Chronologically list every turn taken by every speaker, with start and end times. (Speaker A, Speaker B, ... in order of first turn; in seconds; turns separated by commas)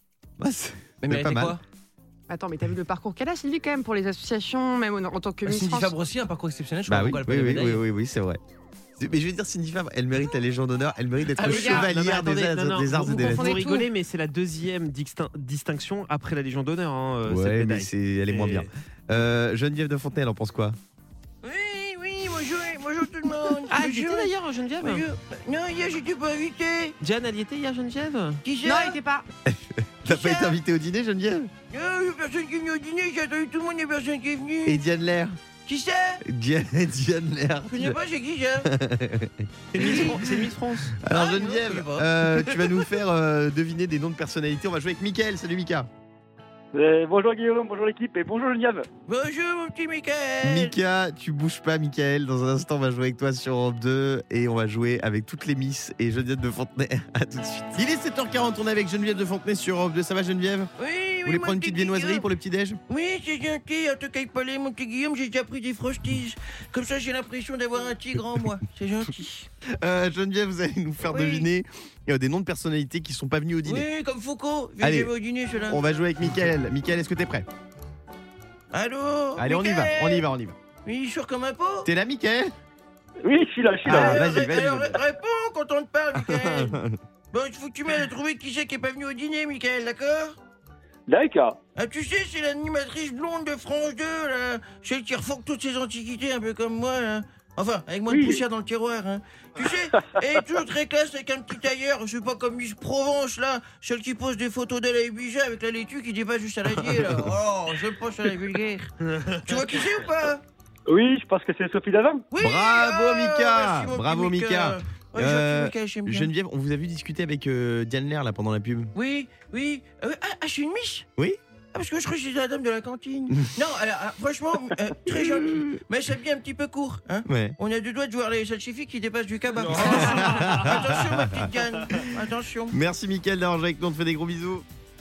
Speaker A: 0.4-1.6, Speaker B: 1.0-1.6, Speaker C: 2.3-5.9, Speaker B: 5.5-7.9, Speaker A: 6.9-8.4, Speaker A: 9.0-13.6, Speaker B: 11.4-11.8, Speaker D: 11.4-18.7, Speaker C: 11.5-11.8, Speaker C: 13.1-13.9, Speaker A: 17.3-20.8, Speaker B: 21.4-27.0, Speaker D: 23.7-25.0, Speaker D: 27.0-28.4, Speaker B: 28.4-29.0, Speaker C: 28.6-29.2, Speaker A: 29.5-31.5, Speaker B: 30.1-30.6, Speaker B: 31.7-34.8, Speaker A: 34.6-35.4, Speaker B: 35.7-36.2, Speaker A: 36.2-38.0, Speaker B: 37.7-38.7, Speaker A: 38.6-45.9, Speaker D: 39.7-41.0, Speaker B: 39.8-40.2, Speaker B: 41.1-42.9, Speaker E: 46.7-48.9, Speaker B: 49.1-50.8, Speaker A: 50.4-60.7, Speaker B: 60.8-62.2, Speaker A: 61.3-62.8, Speaker B: 62.9-69.5, Speaker A: 69.7-73.9, Speaker B: 71.0-71.5, Speaker B: 73.7-75.8, Speaker A: 74.8-75.1, Speaker A: 75.7-77.5, Speaker B: 78.7-80.3, Speaker A: 79.4-80.6, Speaker B: 80.8-81.9, Speaker A: 81.8-82.5, Speaker E: 83.2-84.5, Speaker A: 83.8-85.0, Speaker B: 83.9-86.8, Speaker A: 86.2-87.0, Speaker B: 87.3-90.4, Speaker E: 91.1-91.6, Speaker B: 91.8-108.9, Speaker E: 98.1-98.4, Speaker D: 109.1-109.5, Speaker B: 109.5-110.4, Speaker E: 110.9-112.2, Speaker B: 112.3-116.3, Speaker A: 112.4-118.9, Speaker B: 119.0-121.1, Speaker B: 121.7-132.8, Speaker A: 125.1-125.8, Speaker A: 127.2-127.6, Speaker A: 129.8-131.5, Speaker A: 132.7-134.7